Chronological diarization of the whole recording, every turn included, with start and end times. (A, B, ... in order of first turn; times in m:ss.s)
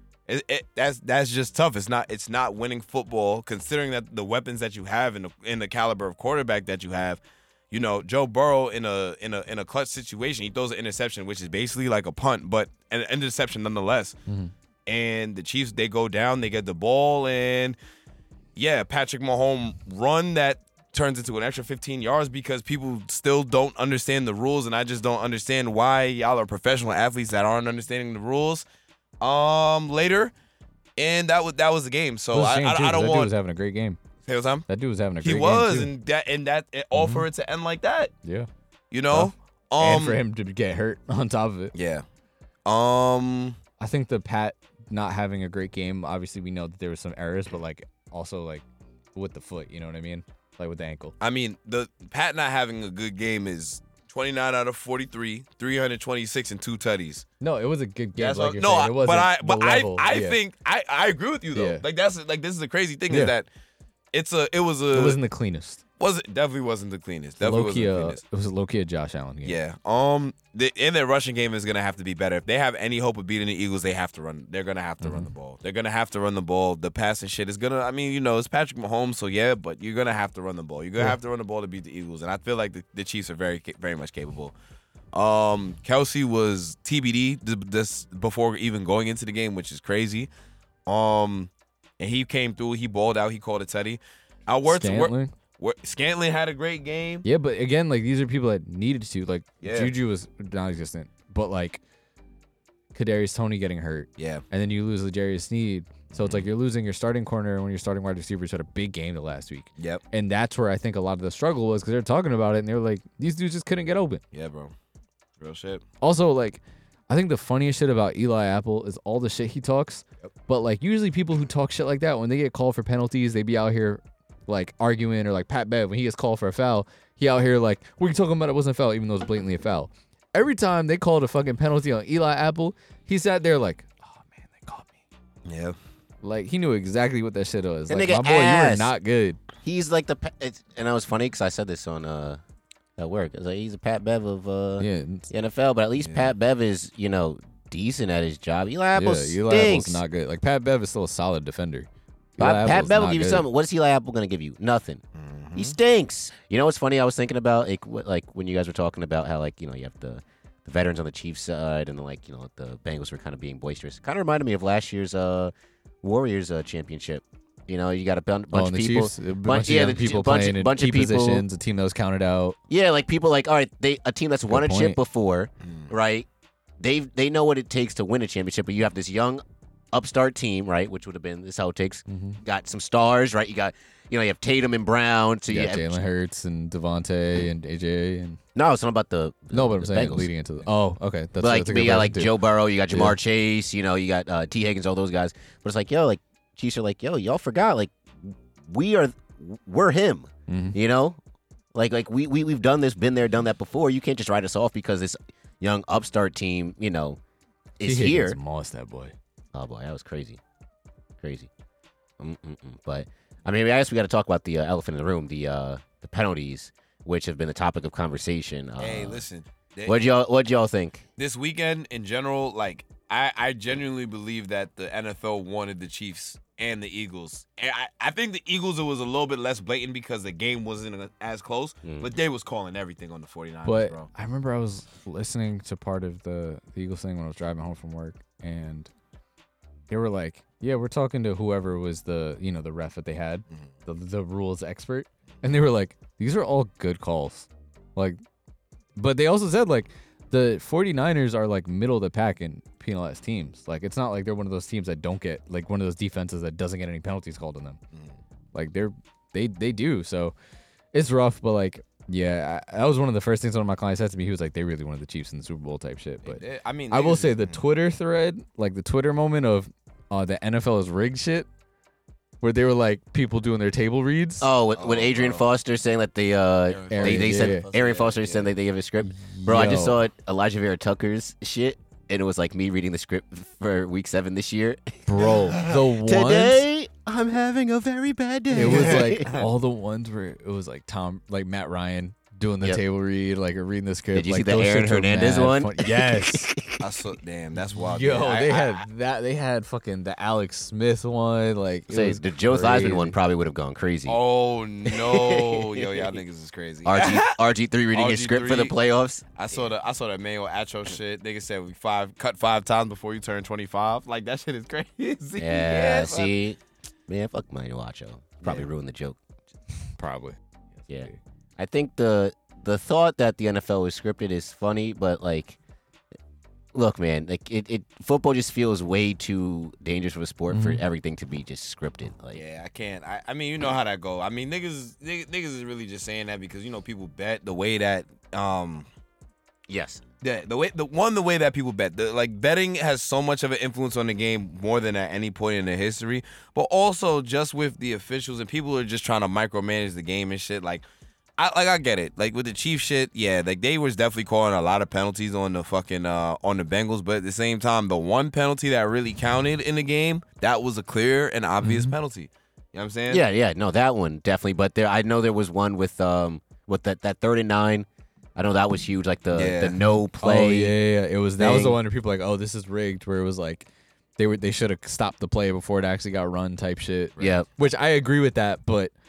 0:00.3-0:14.2 A
0:14.3-0:14.5 B
0:14.9-0:17.8 A
0:18.6-0:28.6 A
0:29.2-0:30.3 A
0:31.0-0:33.3 A
0:32.3-0:34.0 B
0:34.2-0:34.7 A
0:34.7-0:35.9 B
0:35.2-0:38.1 A
0:36.9-0:37.3 B
0:38.2-0:38.5 B
0:38.9-0:40.2 A
0:39.1-0:41.7 B
0:41.7-0:42.0 A
0:42.6-0:43.6 A
0:43.8-0:51.1 B
0:51.2-0:57.2 A
0:57.4-1:00.4 B
0:58.2-1:03.5 A
1:01.5-1:01.8 B
1:03.1-1:03.3 B
1:04.1-1:05.2 A
1:04.9-1:05.8 B
1:06.0-1:08.2 A
1:07.4-1:09.6 B
1:09.4-1:24.5 A
1:15.0-1:15.3 B
1:25.1-1:30.3 A
1:30.8-1:37.2 A
1:34.7-1:35.3 B
1:37.2-1:41.8 B
1:39.6-1:39.9 A
1:42.9-1:54.2 B
1:44.2-1:44.4 A
1:46.2-1:46.4 A
1:54.3-1:54.7 A
1:55.4-1:55.8 A
1:56.0-2:14.9 B
2:15.4-2:15.8 A
2:16.2-2:19.4 B
2:17.9-2:18.9 C
2:19.6-2:22.4 C
2:23.0-2:30.0 C
2:24.8-2:25.3 B
2:26.0-2:26.3 A
2:28.9-2:33.4 B
2:32.4-2:35.0 C
2:35.1-2:35.8 A
2:35.5-2:51.4 C
2:48.5-2:52.6 B
2:52.7-2:56.3 C
2:54.5-2:55.0 B
2:56.8-3:06.0 C
3:02.1-3:02.4 B
3:05.5-3:08.4 B
3:08.5-3:10.3 C
3:09.5-3:12.4 B
3:11.4-3:21.2 C
3:12.9-3:13.2 B
3:20.5-3:20.8 B
3:21.7-3:27.2 C
3:27.8-3:28.4 C
3:27.8-3:29.1 B
3:29.5-3:30.4 C
3:31.2-3:31.5 C
3:32.2-3:39.2 C
3:38.8-3:40.0 A
3:39.8-3:41.0 C
3:41.2-3:54.1 A
3:51.8-3:52.1 C
3:53.6-3:58.9 B
3:59.9-4:08.2 B
4:09.0-4:17.8 B
4:18.5-4:20.3 B
4:20.9-4:31.5 B
4:26.2-4:27.6 A
4:32.4-4:34.5 B
4:34.4-4:45.0 C
4:34.7-4:35.5 A
4:36.7-4:38.5 A
4:36.9-4:37.6 B
4:39.1-4:40.0 B
4:45.0-4:46.6 B
4:45.7-4:49.3 C
4:48.5-4:56.5 B
4:48.6-4:49.4 A
4:54.1-4:56.8 C
4:56.8-4:58.8 A
4:57.8-5:03.2 B
5:01.9-5:04.2 C
5:04.0-5:07.4 A
5:04.8-5:06.2 C
5:06.8-5:09.2 C
5:07.9-5:08.7 A
5:09.4-5:16.3 A
5:15.4-5:19.2 C
5:20.0-5:21.2 B
5:20.9-5:25.6 C
5:26.7-5:32.4 C
5:30.5-5:30.8 B
5:32.3-5:38.9 A
5:39.7-5:40.0 C
5:40.2-5:50.8 A
5:51.4-6:03.2 A
6:01.6-6:01.9 B
6:03.1-6:10.8 C
6:09.3-6:09.8 A
6:10.1-6:18.9 B
6:11.4-6:11.8 C
6:17.2-6:17.5 C